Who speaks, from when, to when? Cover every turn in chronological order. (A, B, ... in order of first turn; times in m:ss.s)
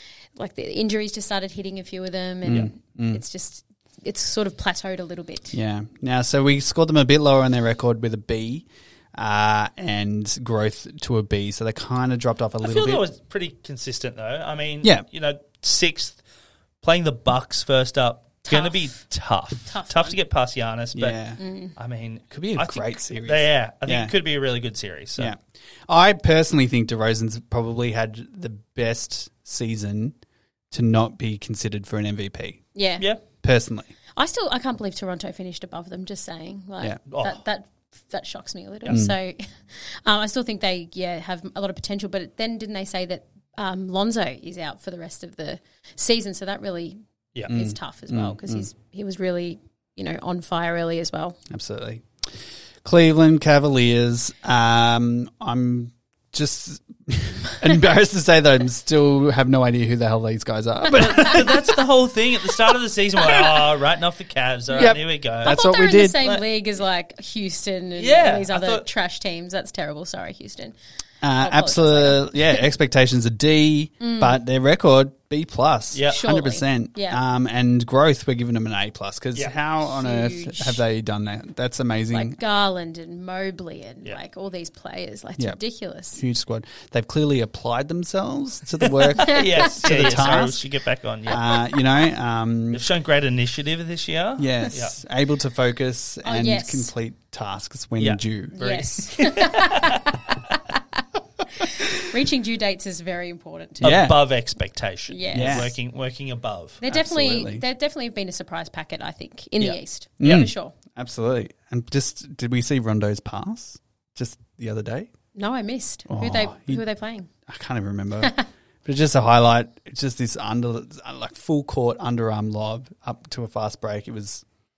0:00.4-0:05.6 A
0:02.4-0:03.2 B
0:05.5-0:13.0 B
0:12.6-0:16.2 C
0:16.8-0:21.2 C
0:18.5-0:18.9 A
0:19.7-0:20.1 A
0:20.9-0:21.4 B
0:21.4-0:21.7 A
0:21.8-0:25.3 C
0:22.3-0:24.1 B
0:25.2-0:30.1 B
0:30.7-0:32.6 B
0:32.7-0:33.0 A
0:33.4-0:33.9 B
0:34.2-0:51.4 A
0:37.1-0:37.4 C
0:38.9-0:39.1 B
0:47.5-0:48.6 B
0:51.5-0:52.0 B
0:52.8-1:01.6 B
1:00.9-1:05.6 C
1:01.0-1:01.5 A
1:04.7-1:10.7 A
1:04.7-1:06.2 B
1:08.0-1:08.8 C
1:11.2-1:22.4 B
1:11.4-1:12.6 A
1:14.0-1:14.4 A
1:15.9-1:16.2 C
1:16.1-1:17.2 A
1:19.8-1:20.8 A
1:22.1-1:26.2 A
1:26.1-1:30.6 B
1:28.8-1:31.4 C
1:29.2-1:29.7 A
1:31.3-1:32.8 B
1:32.7-1:35.0 C
1:34.4-1:38.6 B
1:36.2-1:36.9 A
1:38.0-1:40.1 C
1:38.5-1:40.8 A
1:41.6-1:44.1 A
1:43.8-1:44.2 B
1:43.8-1:46.8 C
1:45.1-1:45.7 A
1:45.3-1:45.7 B
1:46.8-1:50.7 A
1:46.9-1:47.6 B
1:50.2-1:55.1 B
1:55.3-1:57.3 A
1:56.1-1:56.8 B
1:57.4-2:04.4 B